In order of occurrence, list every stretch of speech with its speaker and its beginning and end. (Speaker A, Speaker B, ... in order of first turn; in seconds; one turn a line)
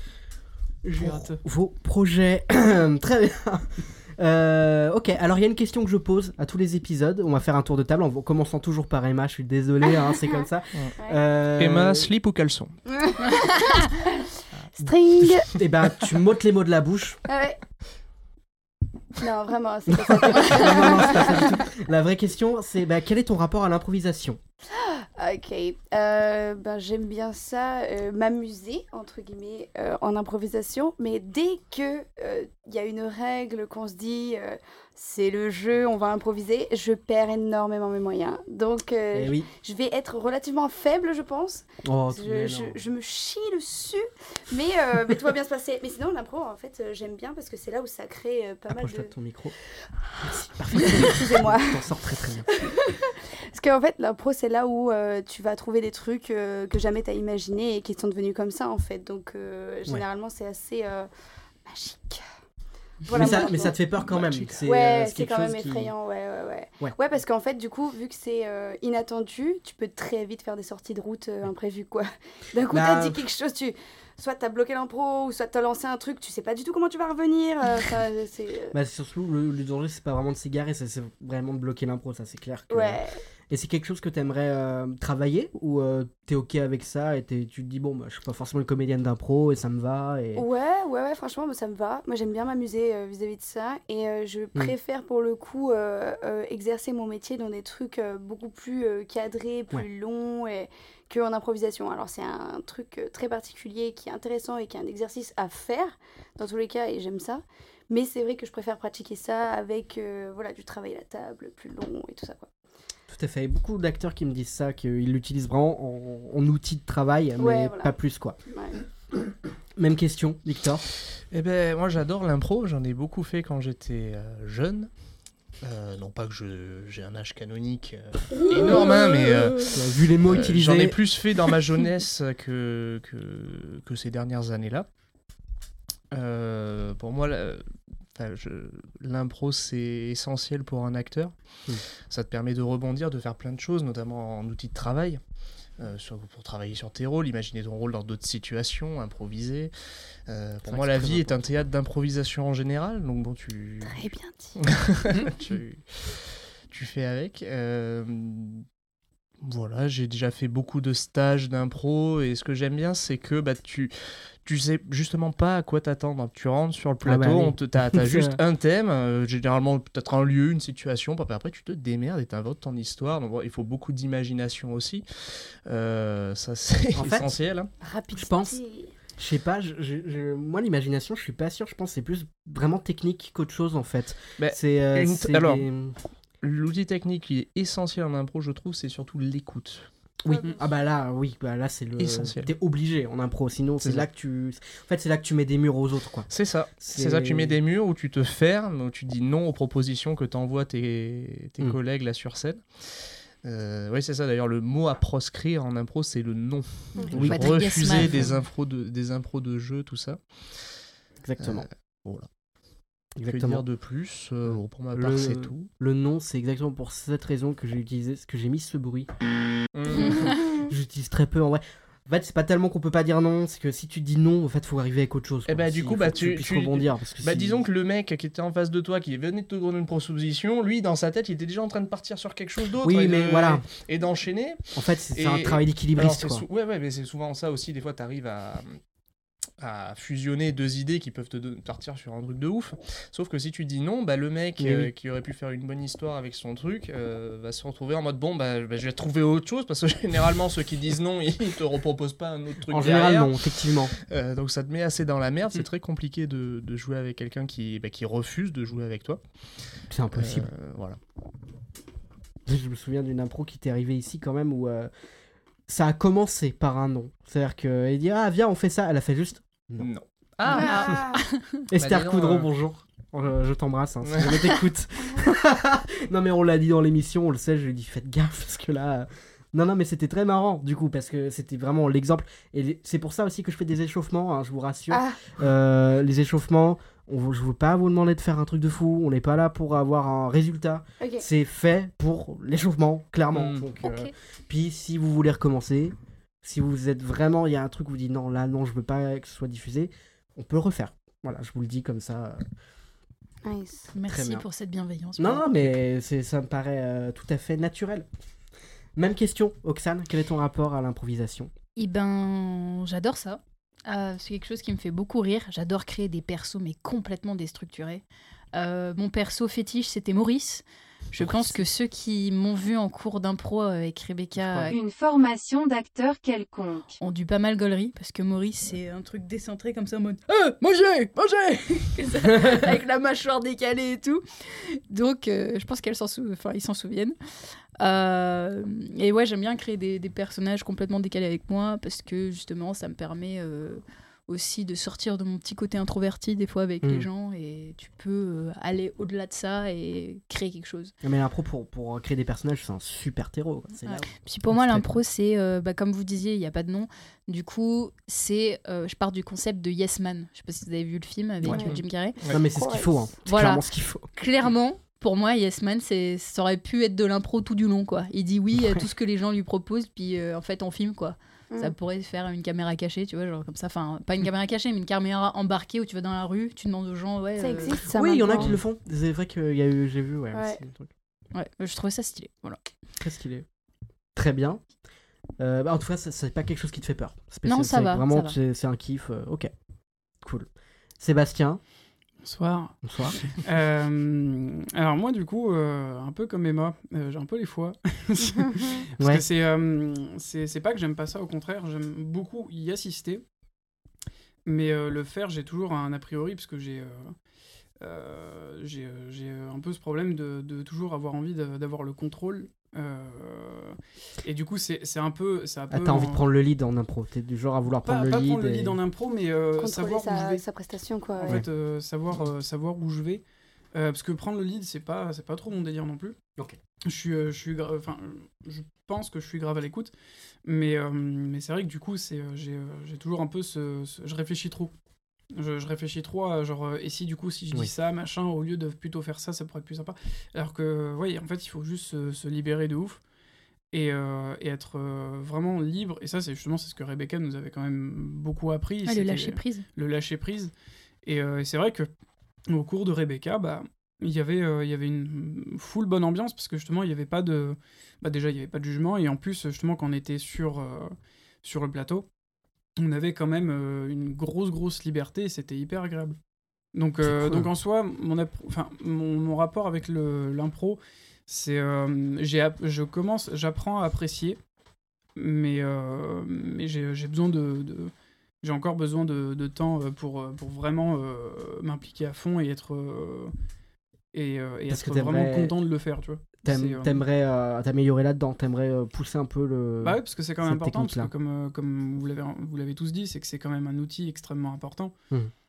Speaker A: 0.8-12.1
Speaker B: 1.0-1.4
Speaker C: 11.5-12.8
Speaker D: 12.9-14.2
Speaker D: 14.8-15.5
Speaker A: 15.5-17.2
Speaker D: 17.3-17.6
Speaker D: 19.2-21.6
Speaker A: 19.9-24.4
Speaker D: 24.7-49.1
Speaker A: 39.1-39.5
Speaker A: 41.9-42.8
Speaker A: 48.7-49.5
Speaker A: 50.2-52.5
Speaker D: 50.8-51.9
Speaker D: 52.5-61.1
Speaker D: 61.7-62.2
Speaker D: 63.1-63.8
Speaker A: 63.1-65.9
Speaker B: 63.2-63.5
Speaker B: 64.2-64.5
Speaker D: 64.7-78.8
Speaker A: 72.7-73.2
Speaker A: 78.7-90.5
Speaker D: 82.7-83.2
Speaker D: 90.3-112.5
Speaker A: 113.1-118.4
Speaker D: 117.4-118.0
Speaker D: 118.5-118.8
Speaker A: 119.8-120.8
Speaker C: 121.3-124.9
Speaker C: 125.6-134.9
Speaker A: 129.7-131.0
Speaker C: 136.1-137.6
Speaker C: 138.2-141.3
Speaker C: 142.1-145.2
Speaker C: 145.8-149.7
Speaker C: 150.3-154.1
Speaker A: 150.7-151.4
Speaker D: 153.8-154.6
Speaker C: 154.6-158.7
Speaker C: 159.4-163.9
Speaker C: 164.4-177.7
Speaker A: 167.0-168.4
Speaker A: 176.9-177.3
Speaker D: 177.8-178.9
Speaker A: 178.1-178.6
Speaker A: 179.2-185.9
Speaker C: 184.4-185.7
Speaker C: 186.4-189.9
Speaker A: 190.2-196.3
Speaker D: 190.3-190.7
Speaker C: 192.0-192.5
Speaker C: 196.3-202.7
Speaker A: 196.8-197.6
Speaker C: 203.4-210.2
Speaker A: 207.1-207.4
Speaker E: 207.1-208.3
Speaker A: 211.2-211.7
Speaker C: 211.4-212.3
Speaker A: 213.2-213.6
Speaker C: 213.3-215.7
Speaker A: 214.4-219.1
Speaker C: 219.7-220.6
Speaker A: 220.0-227.7
Speaker C: 225.5-234.6
Speaker A: 232.8-233.7
Speaker A: 234.8-236.4
Speaker C: 235.1-238.8
Speaker C: 239.6-253.4
Speaker A: 244.6-244.9
Speaker A: 252.7-253.9
Speaker C: 254.1-259.2
Speaker A: 259.9-260.5
Speaker C: 260.1-261.0
Speaker A: 262.5-264.9
Speaker A: 265.7-269.9
Speaker C: 269.8-271.1
Speaker E: 270.5-271.6
Speaker D: 270.5-271.2
Speaker A: 271.7-302.4
Speaker C: 271.8-272.5
Speaker C: 274.0-274.5
Speaker D: 284.9-285.2
Speaker D: 291.0-291.2
Speaker C: 293.3-293.6
Speaker E: 293.8-294.1
Speaker D: 303.4-303.9
Speaker E: 303.9-305.6
Speaker A: 304.0-304.4
Speaker A: 305.2-308.1
Speaker A: 309.0-311.5
Speaker E: 311.8-318.0
Speaker E: 318.5-324.8
Speaker A: 324.4-324.7
Speaker F: 324.7-326.9
Speaker E: 327.0-337.1
Speaker E: 337.8-350.9
Speaker A: 351.0-355.0
Speaker E: 353.9-362.2
Speaker A: 361.4-361.7
Speaker C: 361.5-362.4
Speaker A: 362.3-364.1
Speaker D: 362.4-363.0
Speaker E: 363.3-377.8
Speaker D: 377.4-378.6
Speaker A: 377.9-380.9
Speaker D: 380.3-380.6
Speaker E: 381.3-382.6
Speaker A: 383.0-383.4
Speaker A: 384.1-384.6
Speaker A: 385.4-389.5
Speaker E: 387.5-388.4
Speaker A: 390.2-390.5
Speaker A: 391.0-391.6
Speaker B: 392.2-403.2
Speaker A: 392.8-393.2
Speaker B: 404.5-407.1
Speaker B: 407.8-416.2
Speaker A: 415.7-418.8
Speaker B: 417.8-420.4
Speaker D: 419.6-421.4
Speaker B: 421.2-423.2
Speaker B: 423.7-426.2
Speaker B: 426.9-429.9
Speaker B: 430.4-434.7
Speaker B: 435.3-443.0
Speaker B: 443.7-450.5
Speaker E: 448.9-449.7
Speaker B: 451.1-451.9
Speaker B: 452.5-462.1
Speaker B: 462.8-466.2
Speaker B: 466.7-474.4
Speaker A: 467.0-467.5
Speaker B: 475.2-483.3
Speaker B: 484.1-487.0
Speaker A: 484.7-485.6
Speaker A: 486.4-491.1
Speaker B: 489.8-494.9